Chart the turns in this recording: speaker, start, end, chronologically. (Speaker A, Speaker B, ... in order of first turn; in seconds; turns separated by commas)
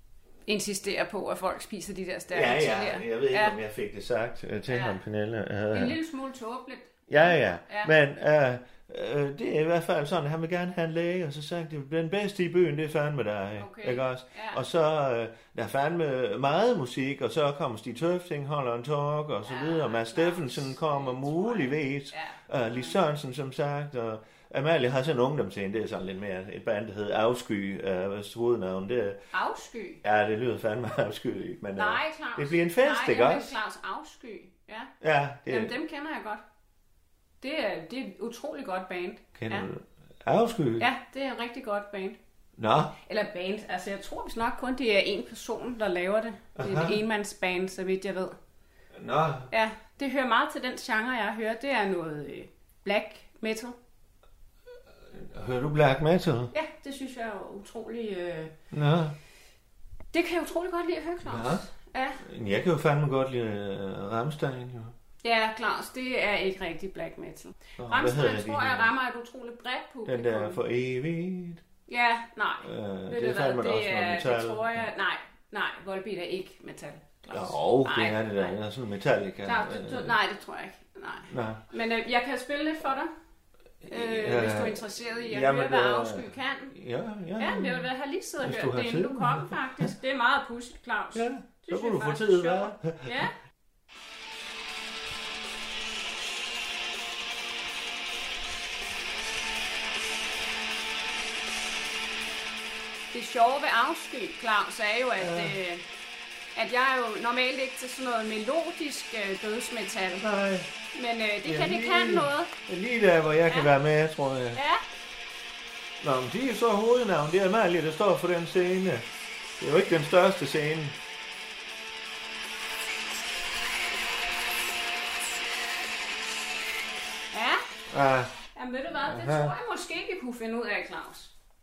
Speaker A: 0.5-3.5, Speaker B: 2.3-6.0, Speaker A: 4.7-5.0, Speaker A: 5.7-7.9, Speaker B: 7.1-29.2, Speaker A: 13.6-14.6, Speaker A: 19.4-23.0, Speaker A: 29.3-30.0, Speaker B: 30.0-33.5, Speaker A: 31.8-34.9, Speaker B: 35.0-35.8, Speaker A: 35.5-36.4, Speaker A: 37.4-39.7, Speaker B: 39.3-40.9, Speaker A: 40.8-42.2, Speaker B: 42.6-42.9, Speaker A: 43.1-48.3, Speaker B: 46.5-47.0, Speaker B: 48.9-49.5, Speaker A: 49.5-53.8, Speaker B: 55.1-56.5, Speaker A: 56.5-58.5, Speaker B: 58.7-59.1, Speaker A: 60.1-62.2, Speaker B: 61.2-61.7, Speaker B: 62.2-64.9, Speaker A: 65.2-70.6, Speaker B: 67.8-68.9, Speaker B: 70.0-71.6, Speaker A: 71.9-78.5, Speaker B: 72.6-74.9, Speaker B: 77.3-80.2, Speaker A: 79.4-83.1, Speaker B: 81.3-81.6, Speaker B: 83.8-87.9, Speaker A: 83.9-86.7, Speaker A: 87.4-93.3, Speaker B: 88.4-89.9, Speaker B: 91.1-93.2, Speaker A: 103.1-105.8, Speaker B: 105.2-105.5, Speaker A: 106.5-110.2, Speaker B: 110.2-110.7, Speaker A: 110.9-112.5, Speaker B: 111.4-114.6, Speaker A: 114.5-114.8, Speaker B: 116.0-119.0, Speaker B: 119.6-121.0, Speaker A: 127.3-127.6, Speaker B: 127.9-128.3, Speaker A: 128.5-131.3, Speaker B: 129.1-129.5